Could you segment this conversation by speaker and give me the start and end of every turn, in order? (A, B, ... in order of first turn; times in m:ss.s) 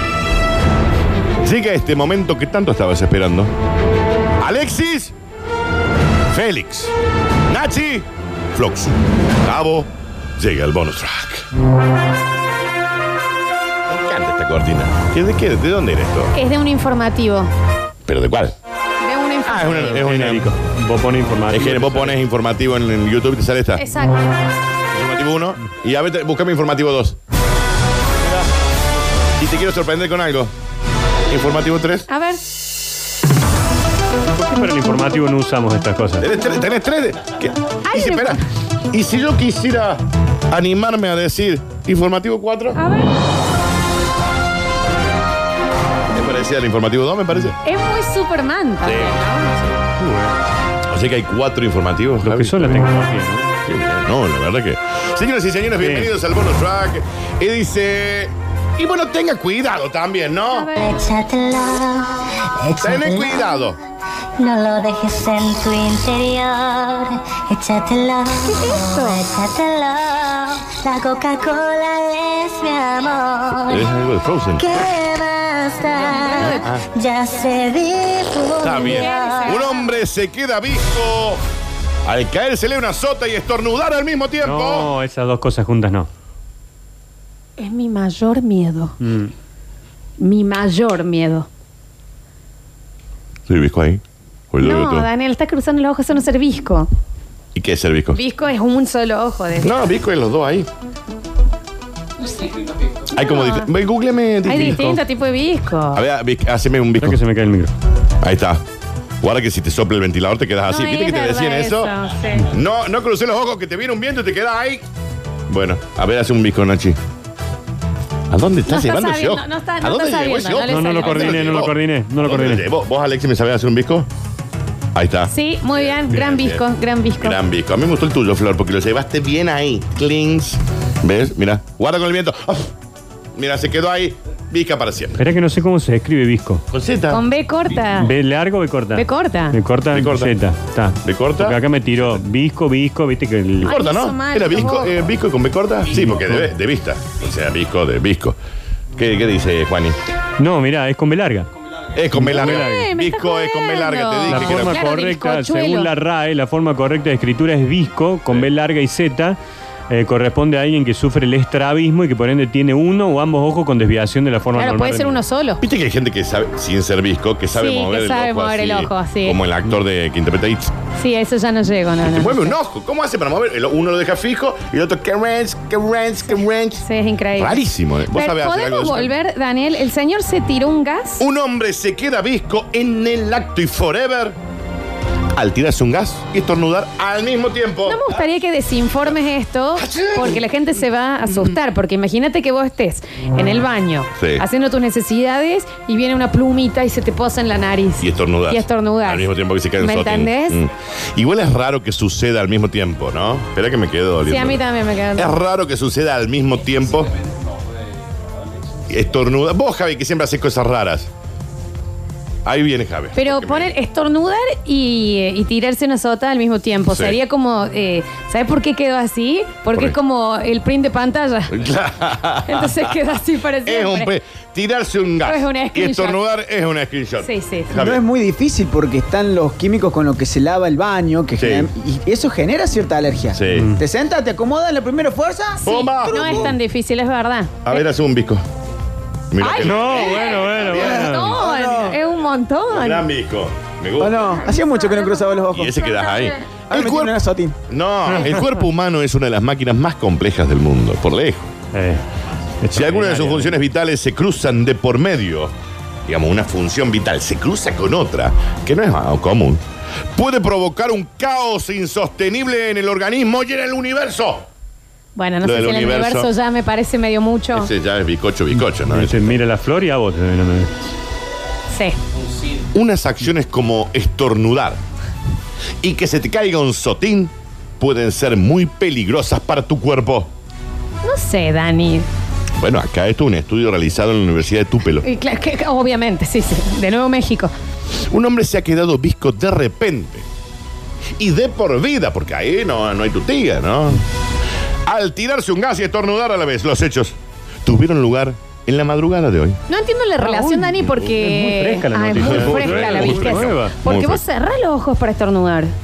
0:01.4-0:03.5 A
0:04.4-0:05.1 A
0:06.3-0:06.9 A
0:07.5-0:11.4 A
0:13.9-0:16.3 A
0:16.3-0:17.5 B
0:18.1-0:18.5 A
0:19.0-0:20.0 B
0:19.4-0:20.5 A
0:19.6-0:22.2 C
0:21.5-0:23.8 A
0:23.8-0:24.2 B
0:24.9-0:27.2 A
0:29.4-0:30.5 A
0:31.3-0:32.1 A
0:32.1-0:32.4 B
0:34.3-0:36.2 C
0:36.2-0:42.8 A
0:37.9-0:38.4 B
0:42.8-0:43.2 B
0:46.1-0:47.6 A
0:47.6-0:49.7 B
0:48.8-0:49.2 A
0:50.0-0:50.3 C
0:50.9-0:52.8 A
0:52.2-0:53.5 C
0:53.6-1:00.7 A
0:55.8-0:56.1 C
1:00.5-1:01.0 B
1:00.8-1:03.6 D
1:02.8-1:03.8 A
1:04.4-1:13.9 D
1:08.4-1:09.2 B
1:13.7-1:14.8 A
1:14.6-1:19.6 D
1:16.1-1:16.7 B
1:16.5-1:16.8 A
1:18.6-1:21.4 A
1:18.8-1:20.0 B
1:22.0-1:24.9 A
1:24.4-1:26.1 C
1:27.6-1:29.0 B
1:29.0-1:29.3 C
1:30.2-1:31.5 B
1:33.5-1:35.1 A
1:34.6-1:36.9 B
1:37.5-1:38.2 A
1:38.1-1:39.7 B
1:39.6-1:40.7 A
1:43.1-1:45.0 A
1:43.1-1:43.7 B
1:44.4-1:46.0 B
1:44.6-1:44.9 C
1:45.9-1:47.2 A
1:47.0-1:47.7 C
1:48.2-1:48.6 A
1:49.2-1:51.9 A
1:50.6-1:52.5 B
1:52.5-1:54.8 A
1:55.5-1:57.0 A
1:58.3-2:04.1 A
1:58.7-2:01.6 B
2:00.5-2:02.6 C
2:04.9-2:06.6 A
2:05.3-2:07.4 B
2:07.2-2:12.7 A
2:13.3-2:15.2 A
2:15.2-2:16.6 C
2:16.7-2:17.2 A
2:17.1-2:18.1 B
2:18.0-2:23.7 C
2:18.9-2:19.6 B
2:19.9-2:20.3 A
2:21.0-2:22.2 A
2:23.6-2:25.0 B
2:23.6-2:28.4 A
2:25.9-2:26.5 C
2:28.9-2:30.0 A
2:30.4-2:31.5 C
2:31.9-2:34.8 A
2:32.1-2:32.9 C
2:32.4-2:35.9 B
2:34.2-2:39.4 C
2:39.9-2:45.2 C
2:44.5-2:45.6 B
2:45.6-2:50.7 A
2:47.5-2:49.4 B
2:50.9-2:52.6 B
2:52.0-2:59.1 A
2:56.8-3:01.2 B
3:01.2-3:04.4 A
3:05.3-3:08.3 A
3:07.8-3:20.6 B
3:09.8-3:10.4 A
3:14.2-3:14.4 A
3:18.0-3:24.6 A
3:24.2-3:25.3 B
3:25.1-3:27.1 A
3:28.9-3:31.1 A
3:32.4-3:33.7 A
3:33.1-3:41.6 B
3:36.9-3:37.2 A
3:41.5-3:42.8 A
3:42.4-3:44.1 B
3:43.6-3:48.0 A
3:45.2-3:46.2 B
3:47.2-3:47.7 B
3:47.7-3:56.5 E
3:51.4-3:51.7 A
3:53.3-3:53.7 A
3:53.5-3:53.8 C
3:55.6-3:57.8 B
3:55.6-3:56.5 A
3:57.6-3:58.4 A
3:59.3-4:01.2 A
3:59.4-3:59.9 E
3:59.6-4:01.4 C
3:59.9-4:03.0 B
4:00.5-4:02.0 E
4:02.7-4:04.4 A
4:04.0-4:05.9 E
4:04.5-4:05.3 B
4:05.5-4:07.2 A
4:05.8-4:06.3 B
4:06.7-4:07.6 E
4:07.7-4:11.5 A
4:08.1-4:08.5 C
4:11.7-4:12.0 C
4:12.6-4:13.6 C
4:12.7-4:15.5 A
4:16.0-4:19.6 A
4:20.1-4:24.5 A
4:25.2-4:27.7 B
4:25.4-4:26.3 A
4:27.5-4:29.4 A
4:28.7-4:30.7 C
4:31.7-4:32.0 B
4:32.7-4:34.8 A
4:35.8-4:40.3 A
4:41.0-4:42.0 B
4:42.6-4:45.0 A
4:45.0-4:47.5 B
4:48.1-4:50.2 A
4:51.2-4:54.0 A
4:54.8-4:59.6 A
4:59.7-5:05.7 B
5:00.2-5:03.8 C
5:02.1-5:04.2 A